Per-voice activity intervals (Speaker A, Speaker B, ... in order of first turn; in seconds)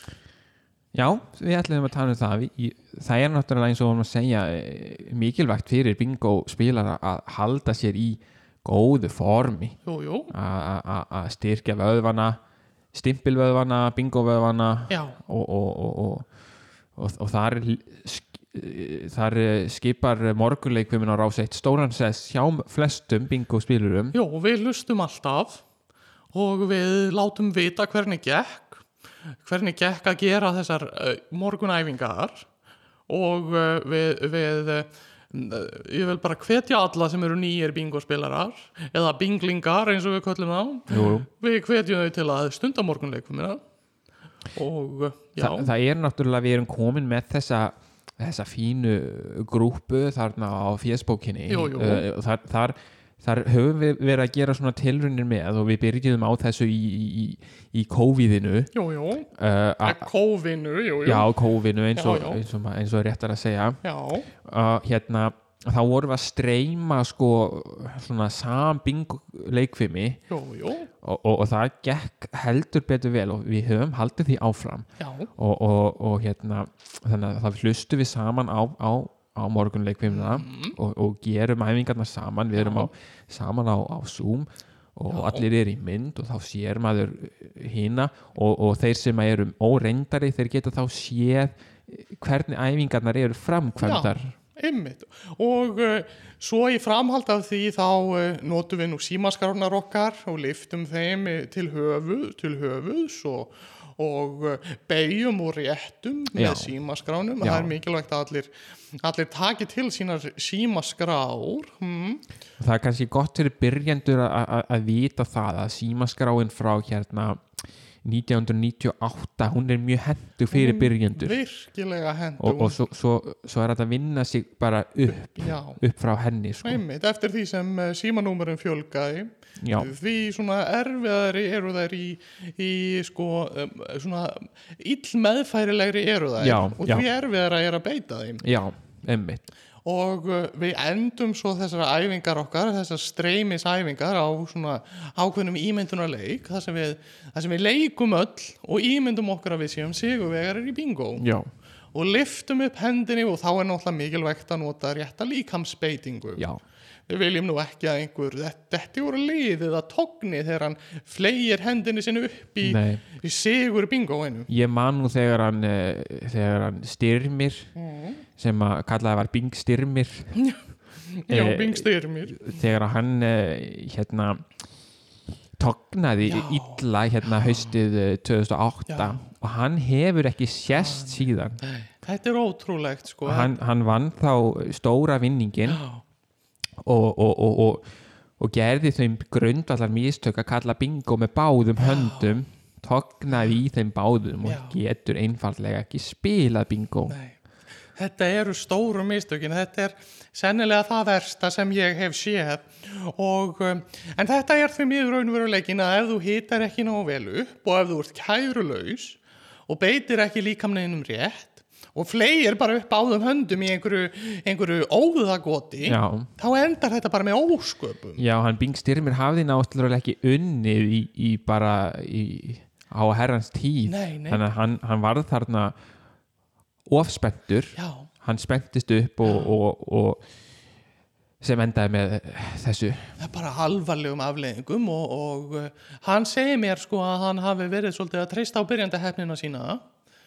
Speaker A: 0.9-9.8, 10.3-12.4, 12.9-16.3, 16.9-24.1, 40.9-41.3, 45.4-58.7, 59.3-60.1, 61.0-63.8, 64.4-70.2, 71.0-94.3, 106.3-106.7, 107.4-107.7, 112.6-117.4, 118.0-121.3, 122.4-126.8, 129.6-129.9, 136.4-137.1, 138.4-139.4, 151.2-151.5, 162.6-163.0, 164.5-167.7, 168.4-170.3, 171.3-174.4, 175.6-181.6, 183.2-185.8, 186.8-187.8, 188.4-197.1, 215.8-216.3, 218.2-225.7, 226.9-230.2, 231.4-233.1
Speaker B: 9.8-10.3, 14.9-15.2, 24.1-25.6, 26.3-28.8, 29.4-32.5, 33.1-43.6, 44.5-45.7, 51.5-52.0, 58.7-59.3, 59.8-61.3, 61.9-62.4, 63.8-64.3, 70.3-70.9, 75.0-75.3, 80.1-80.8, 82.5-82.9, 85.1-85.4, 93.8-108.5, 109.0-112.2, 120.5-122.8, 125.4-125.8, 126.6-138.4, 139.8-151.2, 151.9-156.4, 157.1-164.5, 167.8-168.2, 170.3-172.4, 176.2-177.7, 178.9-179.2, 180.7-183.5, 185.7-186.0, 191.8-192.4, 194.4-194.7, 197.1-197.4, 197.9-218.2, 223.8-224.4, 227.7-228.1, 229.2-229.5, 233.2-239.8